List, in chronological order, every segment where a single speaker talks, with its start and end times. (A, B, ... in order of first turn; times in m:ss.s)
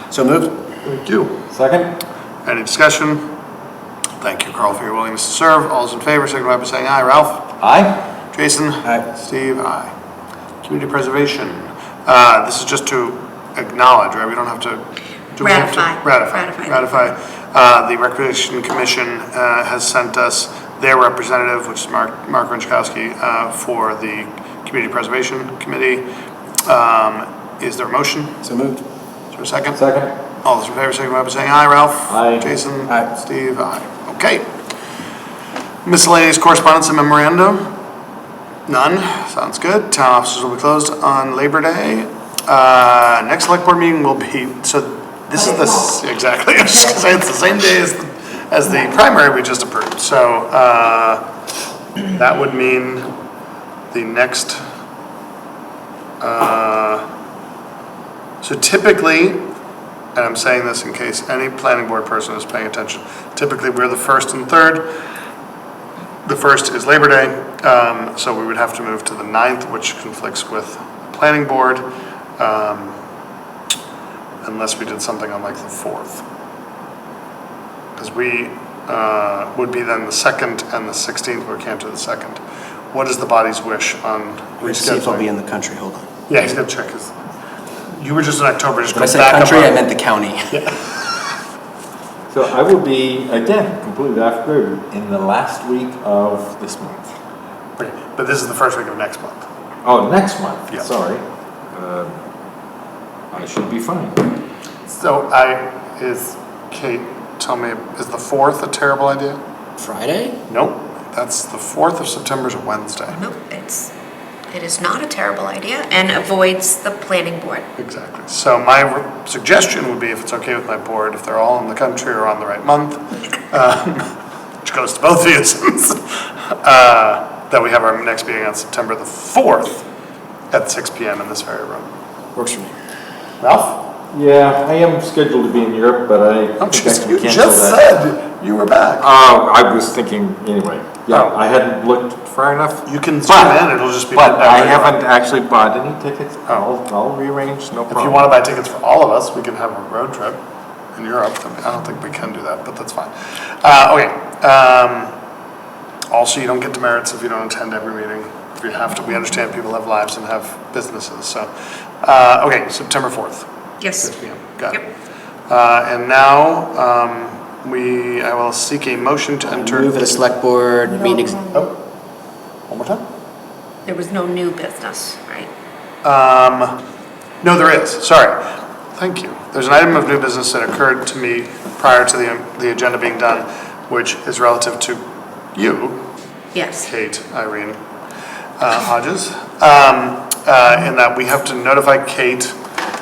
0:00.1-0:00.6 A
0:00.8-0:02.0 B
0:02.4-0:03.3 C
0:04.2-0:07.6 C
0:07.6-0:08.0 B
0:08.3-0:09.9 C
0:10.6-0:26.1 C
0:15.4-0:16.9 D
0:26.6-0:28.4 C
0:28.4-0:28.8 A
0:29.3-0:29.8 C
0:29.7-0:30.1 B
0:30.4-0:34.5 C
0:32.1-0:32.5 B
0:35.8-0:37.7 C
0:38.7-0:51.2 C
0:52.0-0:53.1 C
0:53.9-0:54.6 C
0:56.2-0:57.1 C
0:58.4-0:59.5 C
1:00.1-1:04.9 C
1:06.2-1:11.8 C
1:12.4-1:13.0 C
1:14.4-1:16.2 C
1:18.0-1:22.4 C
1:22.9-1:25.3 C
1:24.6-1:26.1 A
1:26.3-1:27.2 C
1:27.9-1:29.8 C
1:28.9-1:30.5 A
1:30.5-1:31.2 C
1:32.3-1:37.1 B
1:37.8-1:39.4 C
1:39.8-1:42.2 B
1:43.3-1:44.3 B
1:44.8-1:49.4 C
1:49.8-1:50.4 A
1:50.5-1:53.2 C
1:53.1-1:53.9 D
1:54.5-1:57.6 D
1:57.8-2:09.8 C
2:10.5-2:11.9 C
2:12.4-2:12.7 A
2:13.4-2:13.8 C
2:14.1-2:17.8 B
2:16.6-2:19.1 C
2:19.0-2:28.2 B
2:21.1-2:21.4 C
2:22.8-2:25.0 C
2:27.9-2:30.4 C
2:30.9-2:35.1 C
2:36.1-2:41.5 C
2:42.0-2:43.5 C
2:43.8-2:44.1 D
2:44.0-2:44.8 C
2:45.5-2:50.0 C
2:49.5-2:51.4 A
2:51.2-2:51.5 D
2:52.7-2:53.0 C
2:53.8-2:55.5 D
2:56.0-2:56.8 C
2:57.4-3:05.0 C
3:05.5-3:06.0 C
3:06.5-3:06.9 D
3:06.8-3:07.8 C
3:08.6-3:12.6 C